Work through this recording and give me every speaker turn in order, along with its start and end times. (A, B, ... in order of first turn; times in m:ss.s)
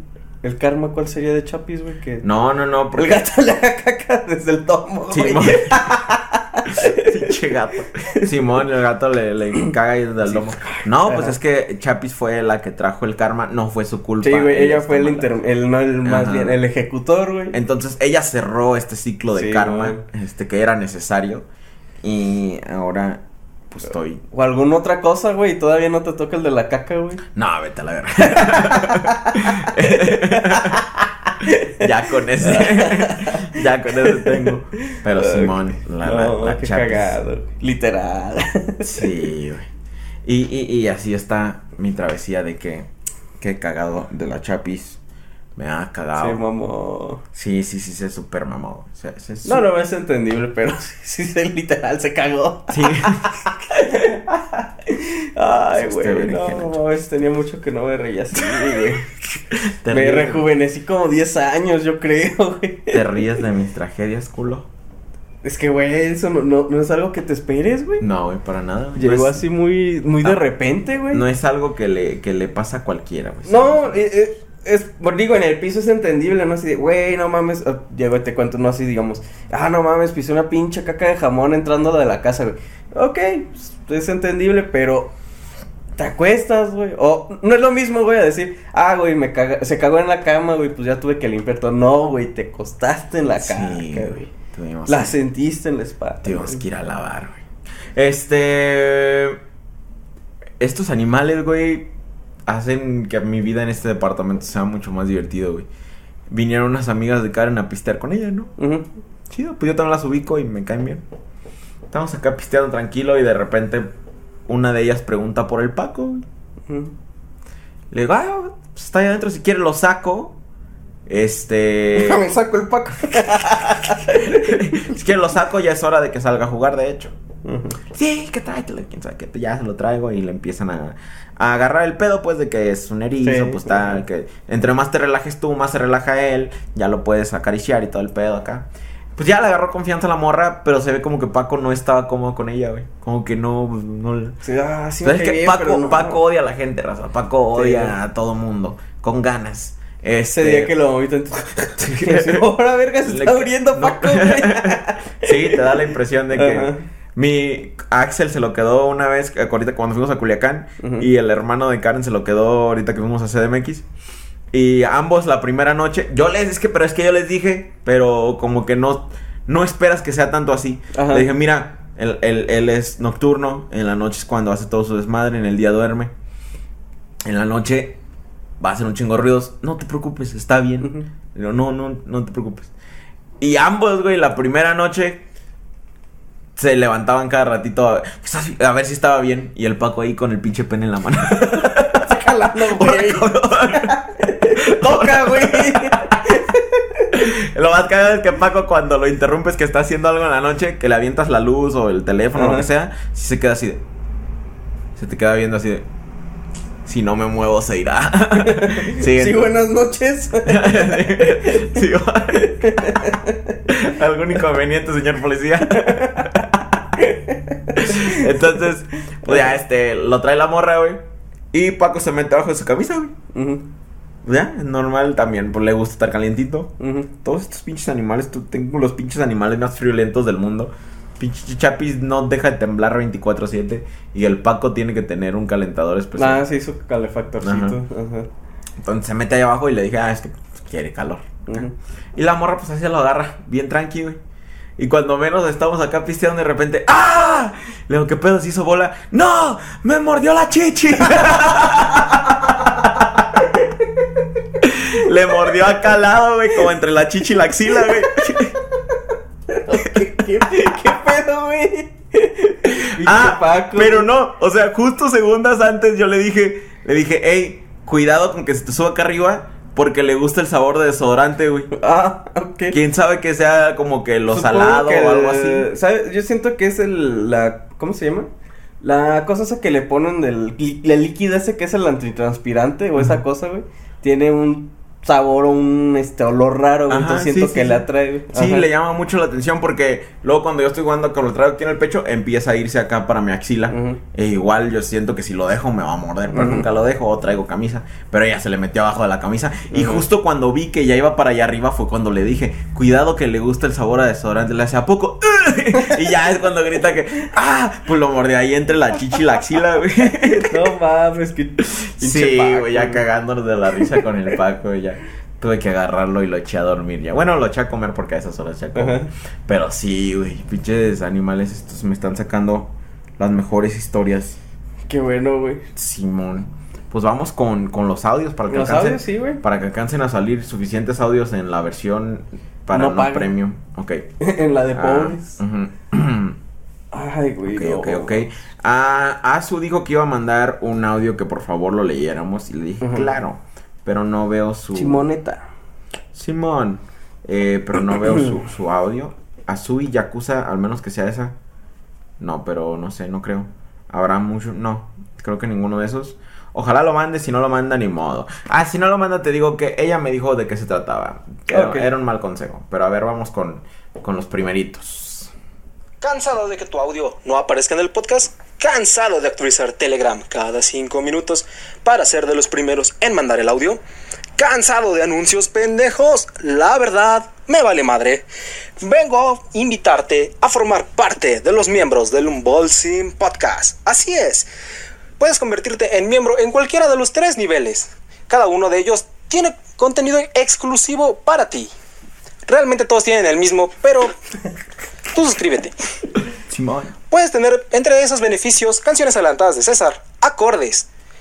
0:00.4-0:02.2 A
0:02.2-0:03.2 B
0:02.9-0:07.4 A
0:05.1-0:05.8 B
0:06.8-0:15.3 B
0:10.3-0:11.4 A
0:14.2-0:17.6 A
0:16.0-0:16.6 B
0:17.5-0:21.4 B
0:19.3-0:20.0 A
0:22.0-0:24.2 B
0:24.3-0:27.2 A
0:27.4-0:30.8 B
0:28.3-0:30.8 A
0:31.4-0:31.7 A
0:31.8-0:37.2 B
0:32.4-0:39.1 A
0:38.8-0:39.7 B
0:40.3-0:42.9 B
0:43.4-0:45.0 B
0:45.6-0:46.4 B
0:46.2-0:47.2 A
0:47.3-0:49.6 B
0:49.4-0:53.1 A
0:52.7-0:53.4 B
0:53.7-0:59.1 A
0:55.7-0:56.8 B
0:58.6-0:58.9 B
0:59.5-1:00.5 B
0:59.9-1:03.1 A
1:02.9-1:04.7 B
1:05.4-1:08.0 A
1:08.0-1:09.4 B
1:09.0-1:11.2 A
1:11.1-1:14.1 B
1:13.5-1:25.1 A
1:26.0-1:34.3 A
1:33.4-1:35.2 B
1:34.9-1:36.6 A
1:36.2-1:37.4 B
1:38.0-1:39.4 B
1:40.6-1:41.9 B
1:42.5-1:45.7 B
1:46.3-1:48.5 B
1:48.6-1:48.9 A
1:49.3-1:51.0 B
1:51.9-1:53.9 B
1:54.5-1:56.2 B
1:56.7-1:56.9 A
1:57.9-2:00.4 B
2:01.1-2:02.2 B
2:02.0-2:04.6 A
2:03.5-2:07.1 B
2:07.4-2:07.8 A
2:07.9-2:24.4 B
2:13.2-2:14.0 A
2:24.4-2:26.2 A
2:25.0-2:30.7 B
2:27.6-2:28.0 A
2:30.3-2:35.6 A
2:31.8-2:32.5 B
2:33.0-2:43.8 B
2:36.3-2:36.8 A
2:40.8-2:41.1 A
2:44.5-2:56.1 B
2:50.9-2:51.3 A
2:57.2-2:58.0 B
2:58.6-3:02.7 B
3:00.8-3:01.1 A
3:03.4-3:05.2 B
3:06.6-3:16.2 B
3:11.4-3:17.0 A
3:17.1-3:23.8 B
3:22.4-3:22.7 A
3:25.0-3:25.8 B
3:26.9-3:29.5 B
3:28.4-3:31.8 A
3:30.5-3:33.0 B
3:32.4-3:33.6 A
3:33.7-3:36.4 B
3:35.8-3:36.4 A
3:37.0-3:38.3 A
3:37.8-3:41.0 B
3:41.5-3:43.1 B
3:43.3-3:43.7 A
3:44.2-3:46.7 B
3:46.8-3:47.1 A
3:47.2-3:56.4 B
3:56.2-3:58.3 A
3:57.4-3:57.8 B
3:58.8-4:04.2 B
4:01.5-4:01.7 A
4:04.8-4:13.1 B
4:14.6-4:18.5 B
4:17.8-4:18.1 A
4:19.5-4:24.1 A
4:22.7-4:31.7 B
4:31.8-4:32.8 A
4:32.7-4:35.7 B
4:34.3-4:38.3 A
4:38.8-4:48.7 A
4:46.9-5:10.6 B
4:53.7-4:54.0 A
4:56.3-4:56.7 A
4:59.7-5:00.0 A
5:10.5-5:13.0 A
5:11.8-5:24.4 B
5:13.8-5:14.0 A
5:18.8-5:19.1 A
5:24.9-5:25.6 A
5:25.8-5:34.1 B
5:28.5-5:29.4 A
5:32.7-5:33.3 A
5:34.2-5:35.4 A
5:34.7-5:36.4 B
5:36.9-5:38.2 A
5:37.5-5:45.1 B
5:42.8-5:43.1 A
5:44.7-5:45.4 A
5:46.1-5:51.4 B
5:52.2-6:05.3 B
6:01.5-6:01.9 A
6:06.0-6:13.8 C
6:14.4-6:18.2 C
6:18.8-6:24.5 C
6:25.2-6:31.7 C
6:32.5-6:34.1 C
6:35.1-6:35.7 C
6:36.5-6:36.9 B
6:37.1-6:40.9 C